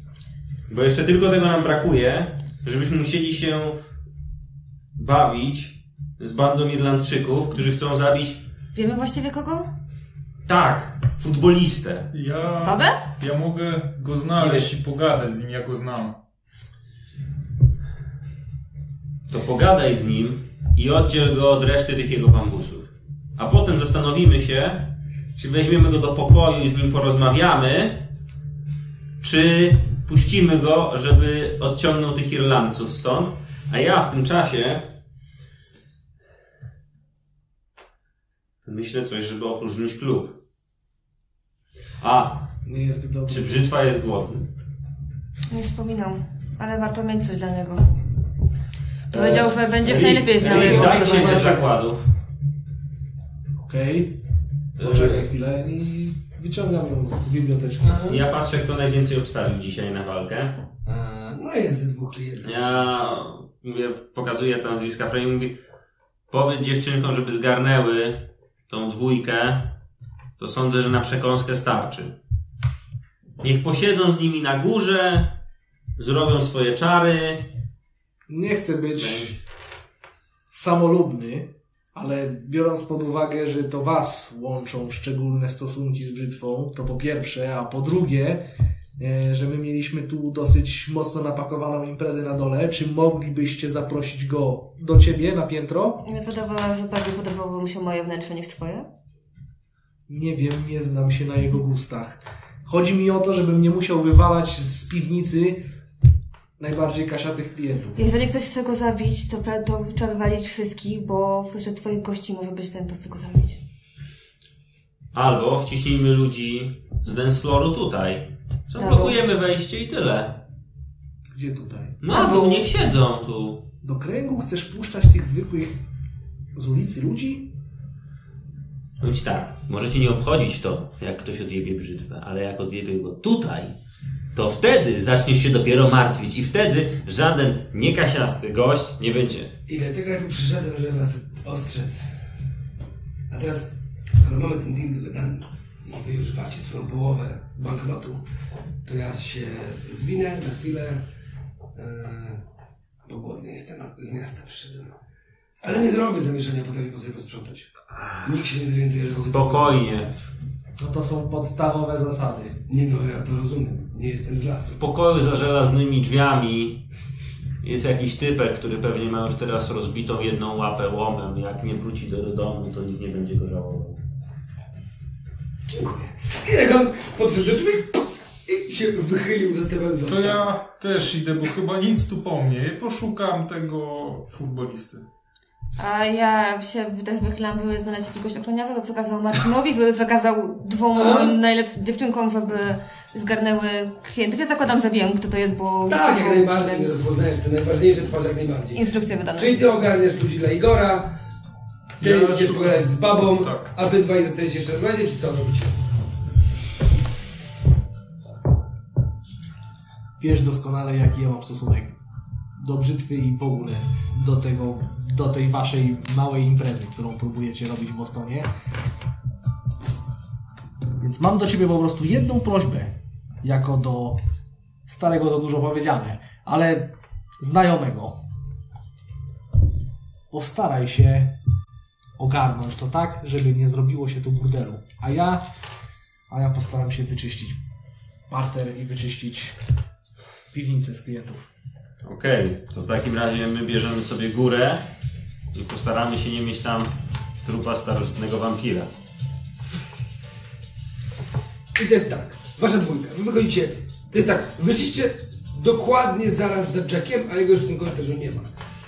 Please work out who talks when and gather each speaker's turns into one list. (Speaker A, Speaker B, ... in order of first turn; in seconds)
Speaker A: 0.7-3.8, 5.0-8.4, 10.4-12.1, 14.4-14.7, 19.3-28.1, 29.2-34.9, 38.6-40.4, 42.0-42.5, 43.3-44.5, 49.1-52.0, 54.8-55.3, 58.1-60.6, 62.4-65.6, 66.3-69.7, 70.4-72.1, 73.4-75.3, 76.0-77.5, 79.0-79.3, 115.1-120.4, 122.0-123.6, 129.0-133.8, 134.3-139.5, 159.1-160.1, 164.8-166.8, 167.6-174.0, 242.0-244.9, 245.5-248.9
Speaker B: 8.7-9.7, 12.6-13.0, 45.5-48.0, 49.1-51.6, 96.0-98.9, 108.0-113.6, 118.8-119.2, 122.1-122.7, 185.8-197.1, 198.7-199.6
Speaker C: 12.1-16.2, 180.1-185.0, 202.0-203.7
Speaker D: 42.6-43.7, 53.7-54.2, 54.8-58.0, 78.3-79.3, 80.5-88.4, 89.0-96.0, 100.1-105.7, 106.6-108.0, 121.3-122.3, 123.8-125.8, 126.5-127.5, 160.8-162.6, 210.2-211.9, 212.6-218.5, 221.0-224.2, 224.9-228.2, 230.3-231.3, 232.2-235.4, 236.3-237.6, 238.3-239.6, 240.5-241.4
Speaker E: 50.5-51.4, 57.8-58.2, 60.8-62.8, 139.7-142.1, 143.3-148.2, 148.8-151.0, 151.7-152.4, 153.1-154.9, 155.6-159.8, 162.7-164.8, 175.7-180.4, 190.9-191.3, 195.8-201.2, 202.0-205.8, 251.7-258.5